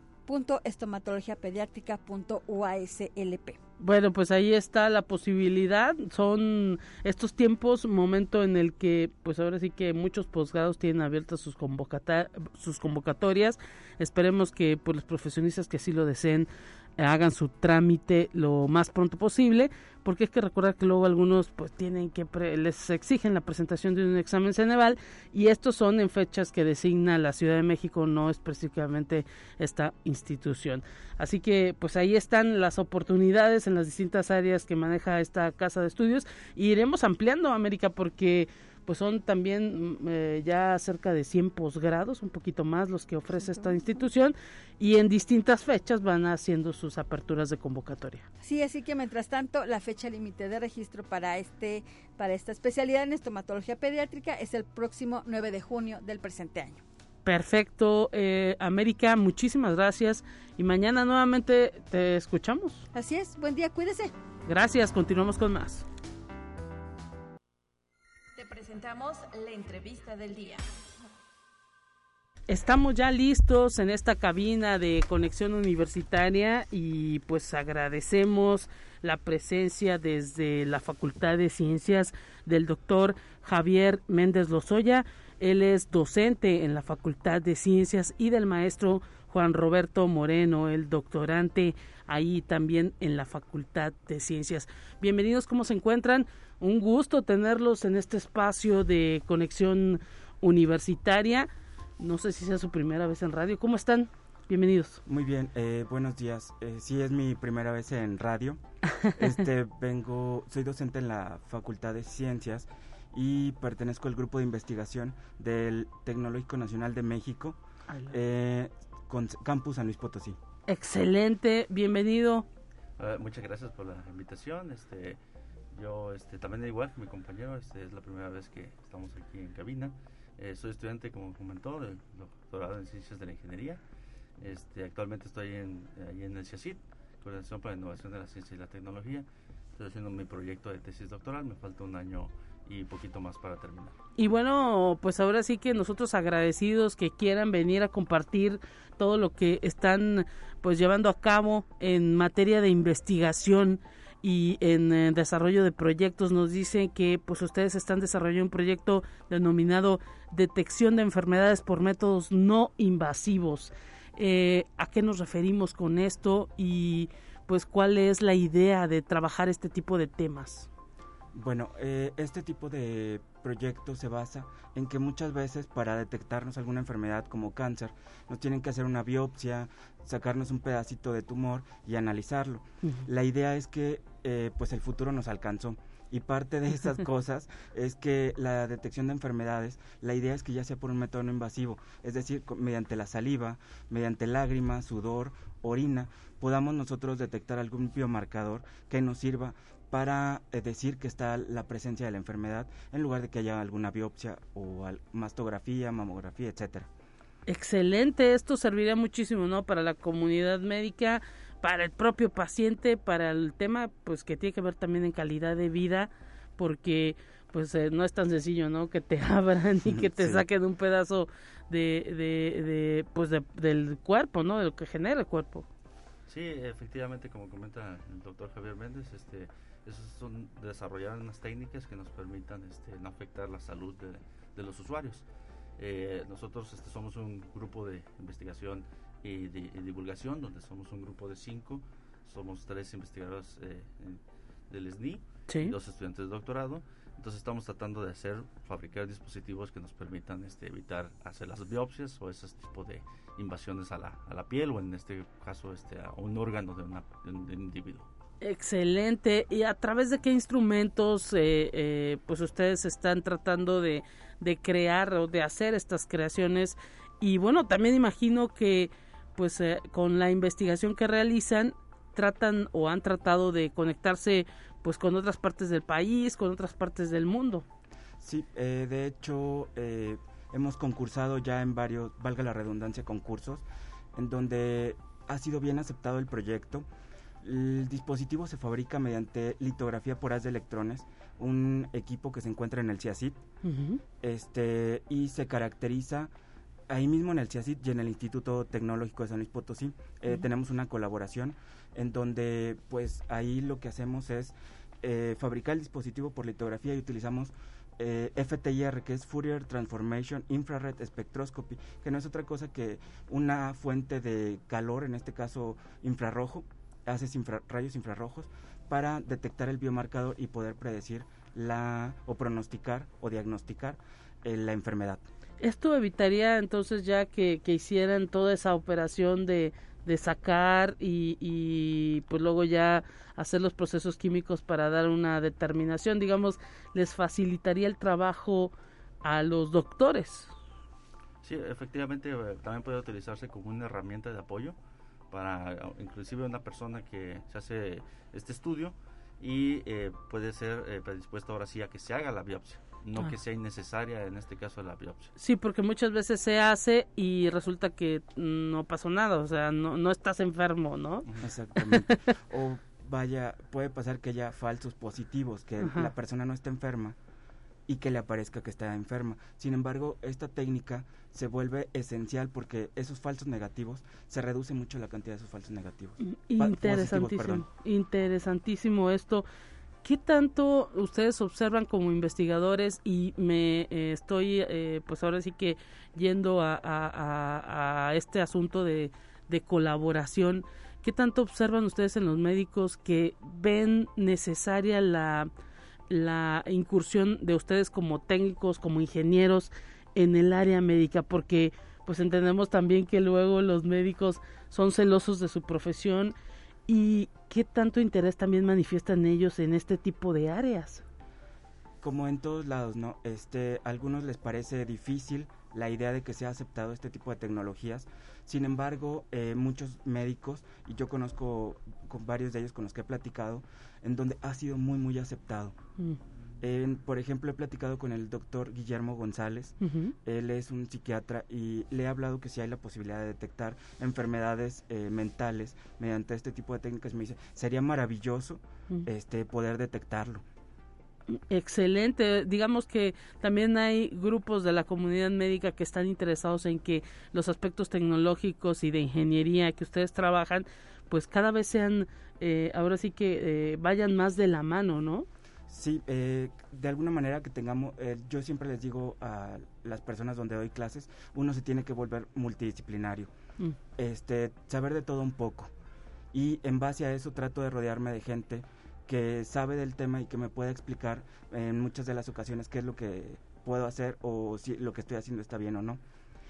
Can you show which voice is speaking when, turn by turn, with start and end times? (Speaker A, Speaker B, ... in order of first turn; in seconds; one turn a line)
Speaker A: 0.2-3.6
Speaker B: 3.8-48.2
Speaker A: 43.4-43.8
Speaker A: 48.4-56.8
Speaker B: 57.2-62.8
Speaker A: 62.9-64.1
Speaker B: 64.5-65.8
Speaker C: 68.4-70.6
Speaker B: 72.5-105.0
Speaker D: 105.0-108.6
Speaker D: 109.1-117.6
Speaker B: 117.9-118.1
Speaker D: 118.1-120.4
Speaker B: 120.7-122.5
Speaker E: 123.0-125.2
Speaker E: 125.7-133.8
Speaker E: 134.4-144.0
Speaker B: 144.2-170.7
Speaker D: 171.3-206.9
Speaker B: 207.5-225.7
Speaker D: 219.8-220.4
Speaker E: 226.3-235.2
Speaker E: 235.8-258.1
Speaker B: 258.4-277.6
Speaker D: 278.2-283.6
Speaker D: 284.1-286.9
Speaker D: 287.4-293.4
Speaker B: 293.6-294.0
Speaker D: 294.2-296.3
Speaker D: 296.9-325.2
Speaker B: 325.6-340.5
Speaker E: 341.4-344.8
Speaker E: 345.3-355.3
Speaker B: 355.4-361.2
Speaker D: 361.4-367.1
Speaker B: 365.8-366.1
Speaker D: 367.9-377.7
Speaker B: 376.2-379.4
Speaker B: 380.0-395.5
Speaker B: 396.1-406.3
Speaker B: 406.9-411.0
Speaker D: 412.0-425.8
Speaker D: 426.6-440.4
Speaker B: 429.8-430.1
Speaker B: 441.3-455.3
Speaker D: 455.7-463.3
Speaker D: 464.0-465.7
Speaker D: 466.3-476.0